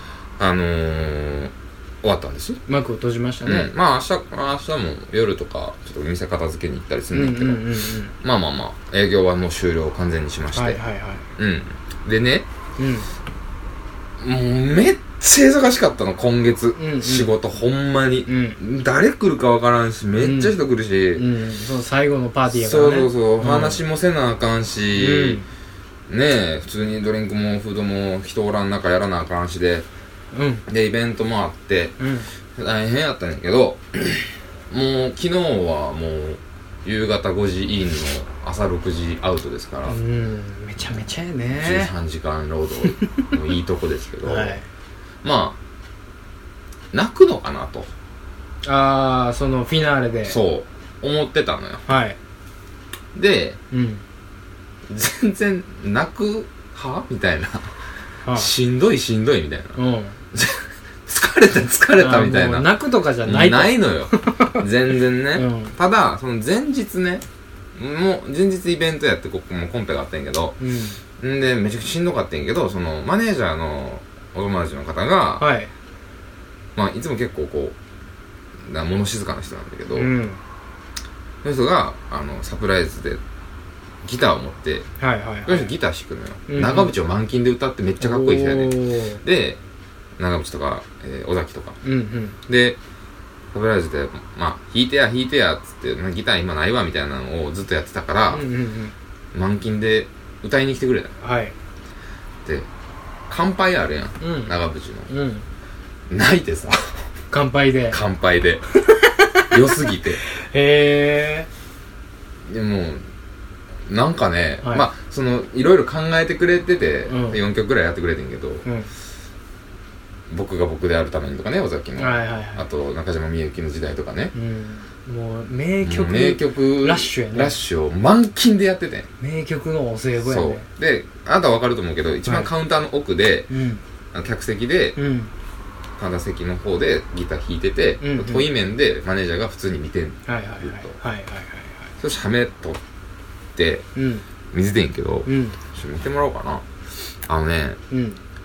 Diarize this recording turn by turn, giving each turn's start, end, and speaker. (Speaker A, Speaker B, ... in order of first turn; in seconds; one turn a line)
Speaker A: 0.4-2.6
Speaker B: 2.7-3.7
Speaker A: 3.4-7.7
Speaker B: 7.1-8.1
Speaker A: 8.2-10.8
Speaker B: 10.5-11.2
Speaker A: 11.4-12.5
Speaker B: 12.8-13.1
Speaker A: 14.2-21.3
Speaker B: 16.8-17.3
Speaker B: 18.3-18.6
Speaker B: 20.2-20.5
Speaker B: 21.1-23.8
Speaker A: 22.5-25.4
Speaker B: 24.9-25.5
Speaker A: 26.1-29.9
Speaker B: 30.3-30.6
Speaker A: 30.7-31.9
Speaker B: 32.0-32.3
Speaker A: 32.5-40.0
Speaker B: 39.9-41.9
Speaker A: 41.5-44.6
Speaker B: 42.9-43.2
Speaker B: 44.2-44.6
Speaker A: 45.2-45.6
Speaker A: 46.9-47.9
Speaker B: 48.6-50.4
Speaker A: 50.3-51.9
Speaker B: 51.9-52.2
Speaker A: 53.1-53.6
Speaker B: 53.7-54.0
Speaker A: 54.9-57.7
Speaker B: 58.2-58.5
Speaker A: 58.3-59.8
Speaker B: 59.8-60.2
Speaker A: 60.3-67.2
Speaker B: 62.0-64.6
Speaker B: 65.3-65.7
Speaker A: 67.8-70.6
Speaker B: 70.6-71.0
Speaker A: 71.2-75.5
Speaker B: 75.4-75.7
Speaker A: 76.7-77.8
Speaker A: 78.6-80.1
Speaker B: 79.9-80.4
Speaker A: 81.4-83.2
Speaker A: 84.0-84.9
Speaker B: 85.0-85.7
Speaker A: 85.5-89.6
Speaker B: 86.5-86.9
Speaker B: 88.0-89.2
Speaker A: 90.2-91.8
Speaker B: 91.8-92.4
Speaker A: 92.5-92.8
Speaker A: 93.5-98.4
Speaker B: 98.3-98.9
Speaker A: 99.3-101.1
Speaker B: 101.2-101.5
Speaker A: 103.3-105.1
Speaker B: 104.2-104.5
Speaker B: 105.1-105.4
Speaker A: 106.1-107.0
Speaker B: 107.3-108.0
Speaker A: 107.9-108.6
Speaker B: 108.9-109.5
Speaker A: 109.5-110.2
Speaker B: 110.5-111.5
Speaker A: 112.5-113.0
Speaker A: 113.9-118.7
Speaker B: 114.6-114.9
Speaker B: 117.1-117.4
Speaker A: 120.3-124.3
Speaker B: 122.0-122.6
Speaker B: 124.3-127.5
Speaker A: 125.8-129.1
Speaker B: 129.2-130.7
Speaker A: 130.2-133.5
Speaker B: 132.2-132.5
Speaker B: 133.5-133.8
Speaker A: 134.1-135.0
Speaker B: 134.9-135.3
Speaker A: 136.0-140.9
Speaker B: 138.0-138.5
Speaker B: 140.3-141.9
Speaker A: 142.0-142.8
Speaker A: 143.5-143.9
Speaker B: 143.9-144.2
Speaker A: 144.5-146.6
Speaker B: 145.2-145.6
Speaker A: 147.3-147.8
Speaker B: 147.9-148.2